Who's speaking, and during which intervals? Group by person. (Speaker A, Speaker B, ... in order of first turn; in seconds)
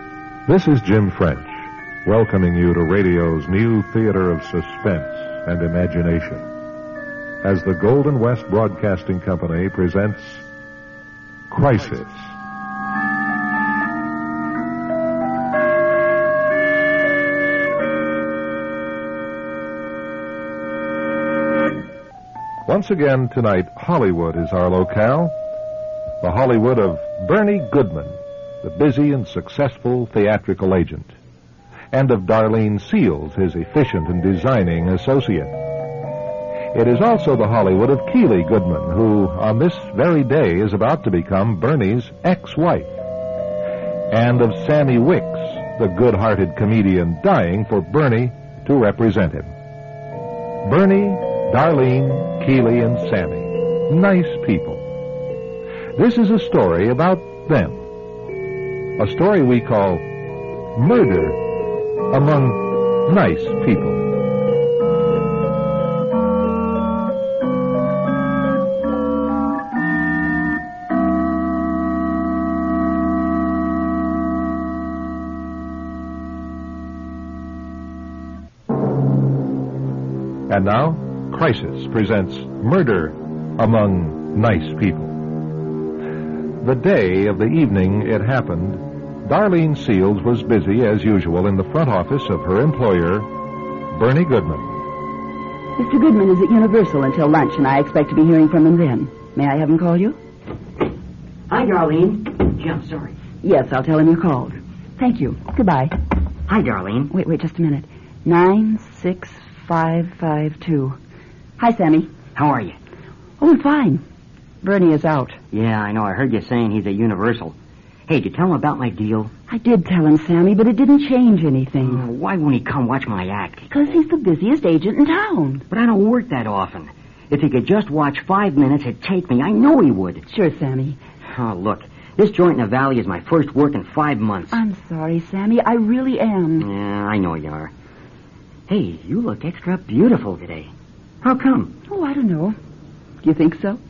Speaker A: 0.5-6.5, 7.4-10.4, 11.5-12.3, 22.6-25.3, 26.2-31.1, 31.9-35.5, 36.7-43.0, 44.1-49.5, 50.6-54.9, 56.0-57.8, 59.0-60.0, 60.8-61.4, 62.1-64.0, 80.5-85.2, 86.6-93.3, 93.9-94.8
Speaker B: 95.8-100.2, 103.4-105.9, 107.1-111.0, 111.6-112.1, 113.4-114.0, 114.6-115.4, 119.5-122.0, 123.7-125.6, 130.3-131.0, 134.5-136.7, 141.9-142.6, 143.2-143.8
Speaker C: 101.5-103.1, 106.5-107.1, 112.3-112.8, 115.5-117.5, 118.1-119.3, 121.8-123.6, 125.7-130.2, 131.3-134.6, 136.6-137.7, 138.7-140.7, 141.2-141.7